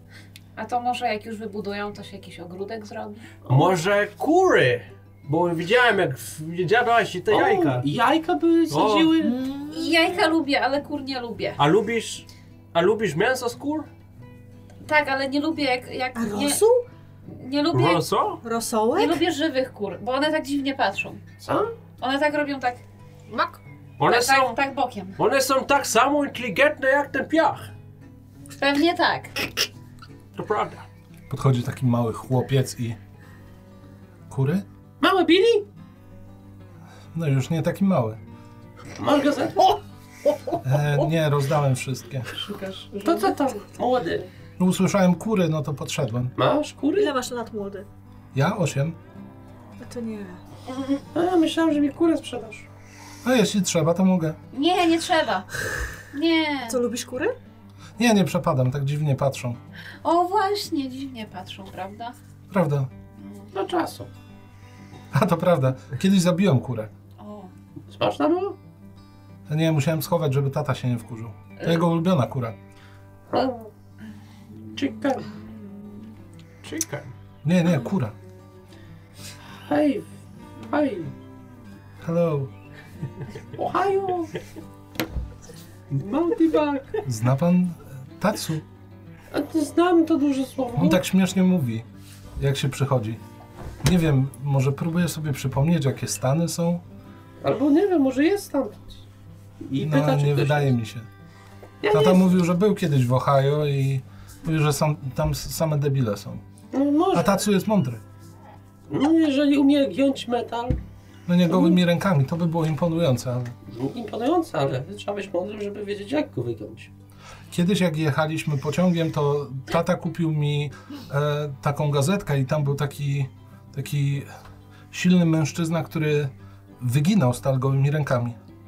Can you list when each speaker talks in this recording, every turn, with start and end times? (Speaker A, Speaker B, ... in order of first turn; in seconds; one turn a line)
Speaker A: 0.6-3.2
Speaker B: 3.5-3.8
Speaker C: 3.5-7.9
Speaker B: 7.3-9.4
Speaker C: 8.7-9.1
Speaker D: 9.2-9.9
Speaker A: 9.7-11.6
Speaker C: 11.6-13.9
Speaker A: 14.8-16.6
Speaker D: 16.1-16.8
Speaker A: 17.2-18.0
Speaker C: 17.7-18.4
Speaker D: 18.4-19.2
Speaker A: 18.9-21.2
Speaker B: 21.4-21.7
Speaker A: 22.0-25.2
Speaker C: 24.0-24.6
Speaker C: 25.2-27.7
Speaker A: 28.5-29.4
Speaker C: 30.3-30.8
Speaker E: 31.3-33.0
Speaker E: 34.3-34.6
Speaker B: 35.0-35.6
Speaker E: 37.1-38.2
Speaker B: 39.0-41.0
Speaker E: 40.6-42.3
Speaker A: 42.3-43.4
Speaker B: 43.0-44.3
Speaker E: 44.6-46.3
Speaker B: 46.4-47.1
Speaker D: 47.0-47.9
Speaker E: 48.3-49.0
Speaker D: 49.8-50.4
Speaker B: 50.9-52.7
Speaker E: 53.2-54.4
Speaker A: 54.5-55.5
Speaker A: 56.1-56.8
Speaker D: 56.6-57.3
Speaker E: 58.0-59.6
Speaker A: 60.0-62.1
Speaker E: 62.5-62.9
Speaker A: 63.2-63.5
Speaker B: 63.5-64.1
Speaker E: 65.1-66.9
Speaker A: 67.2-67.5
Speaker B: 67.9-68.6
Speaker E: 69.5-72.6
Speaker A: 71.6-71.8
Speaker B: 73.3-73.7
Speaker B: 74.8-75.2
Speaker C: 76.6-77.1
Speaker E: 77.4-78.1
Speaker B: 79.6-80.1
Speaker B: 80.6-81.1
Speaker E: 82.0-82.5
Speaker B: 83.5-84.3
Speaker B: 85.9-87.0
Speaker E: 87.0-88.6
Speaker B: 89.3-91.0
Speaker E: 90.8-91.8
Speaker E: 92.4-93.2
Speaker E: 93.8-96.8
Speaker B: 97.4-99.0
Speaker B: 99.6-100.7
Speaker E: 99.8-101.1
Speaker B: 101.8-102.4
Speaker E: 101.9-106.4
Speaker B: 106.7-107.4
Speaker E: 107.1-108.0
Speaker B: 108.9-110.8
Speaker E: 111.3-113.5
Speaker B: 111.5-111.8
Speaker B: 113.7-116.9
Speaker E: 117.5-124.3
Speaker E: 124.9-128.4